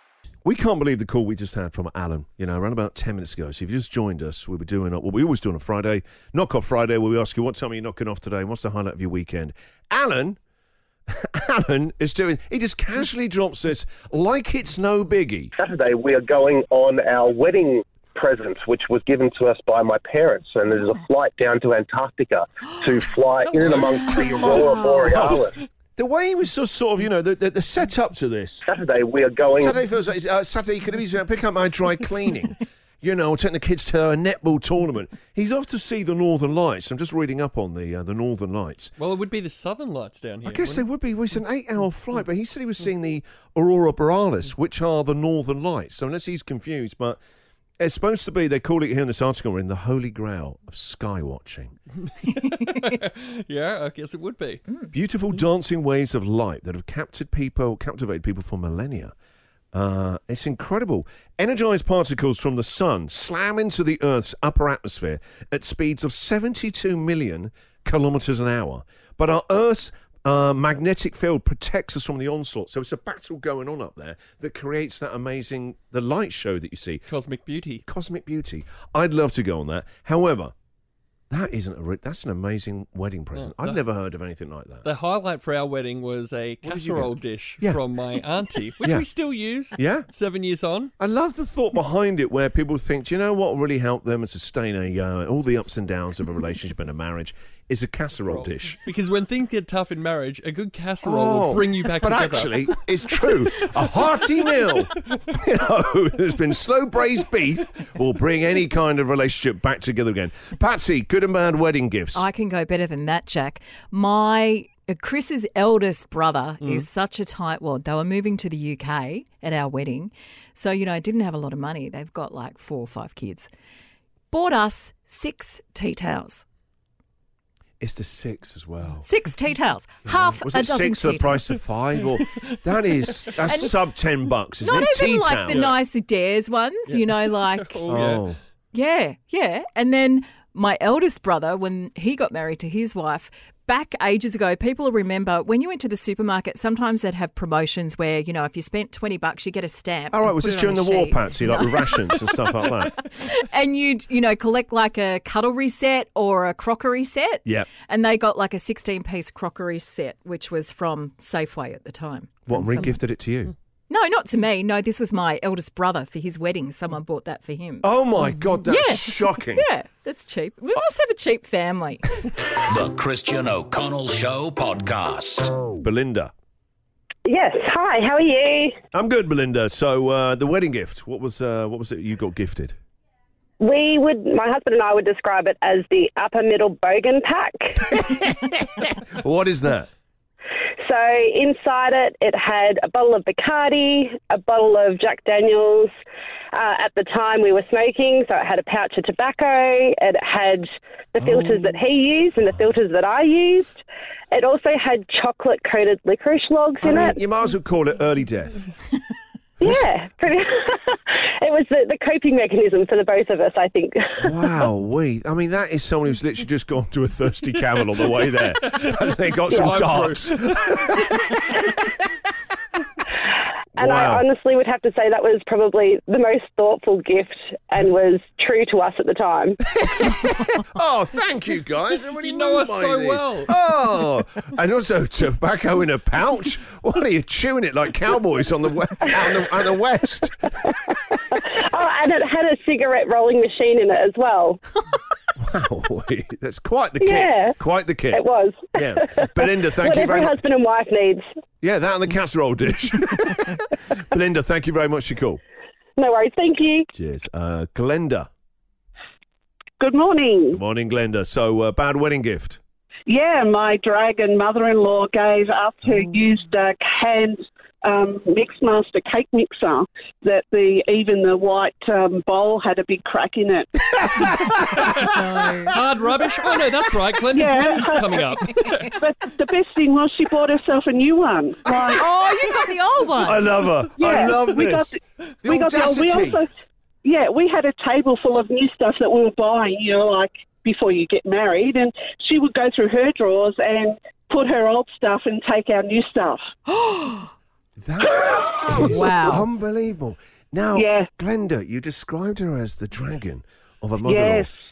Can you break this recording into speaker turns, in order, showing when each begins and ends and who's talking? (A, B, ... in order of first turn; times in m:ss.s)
0:00.4-0:10.4 A
0:11.1-0:15.5 A
0:15.6-0:25.6 B
0:23.4-0:25.0 C
0:25.1-0:25.4 A
0:26.0-0:28.6 A
0:28.6-0:29.7 B
0:29.6-0:38.9 A
0:39.0-0:40.8 C
0:40.4-0:47.2 A
0:47.8-0:51.7 A
0:52.2-0:54.7 C
0:54.9-0:59.1 A
0:59.7-1:17.0 A
1:17.1-1:17.8 C
1:17.9-1:20.5 A
1:21.3-1:24.8 A
1:23.3-1:23.8 C
1:24.8-1:30.9 C
1:26.6-1:27.8 A
1:28.8-1:29.1 A
1:29.7-1:30.1 A
1:31.0-1:38.8 A
1:38.2-1:42.6 C
1:41.0-1:52.2 A
1:52.1-2:03.5 D
2:04.3-2:06.4 D
2:07.8-2:09.1 A
2:09.0-2:11.4 D
2:10.0-2:15.8 A
2:13.4-2:13.7 D
2:14.6-2:17.8 D
2:16.9-2:18.2 C
2:17.9-2:18.4 A
2:18.7-2:43.0 D
2:30.1-2:33.0 A
2:42.5-2:43.5 A
2:43.9-2:47.9 D
2:47.8-2:49.6 A
2:48.6-2:52.0 D
2:52.7-2:55.6 E
2:55.8-2:56.3 A
2:57.2-2:58.8 F
2:58.9-3:02.7 A
3:03.6-3:07.9 F
3:08.0-3:09.9 A
3:10.8-3:15.9 F
3:16.5-3:23.8 F
3:21.2-3:21.6 A
3:24.3-3:27.2 F
3:26.8-3:28.7 A
3:29.6-3:34.3 F
3:29.6-3:29.9 A
3:34.2-3:41.8 A
3:38.6-3:38.9 C
3:39.5-3:40.7 C
3:43.8-3:44.2 A
3:43.8-3:49.6 F
3:49.7-4:00.4 A
3:52.2-3:53.5 C
4:01.3-4:04.6 F
4:05.4-4:08.2 A
4:07.0-4:07.6 F
4:08.1-4:11.2 F
4:08.8-4:10.4 A
4:11.6-4:15.4 A
4:16.0-4:16.9 F
4:16.9-4:18.3 A
4:19.8-4:20.6 G
4:20.5-4:22.6 A
4:23.1-4:34.3 G
4:34.9-4:35.7 D
4:35.7-4:38.9 C
4:37.3-4:38.3 G
4:38.9-4:42.1 G
4:41.7-4:43.4 D
4:43.2-4:46.4 A
4:44.0-4:46.5 G
4:47.0-4:56.4 G
4:56.7-4:57.3 D
4:57.8-5:04.5 A
4:58.5-4:59.4 G
4:58.8-4:59.4 D
5:00.8-5:01.1 G
5:04.0-5:04.5 G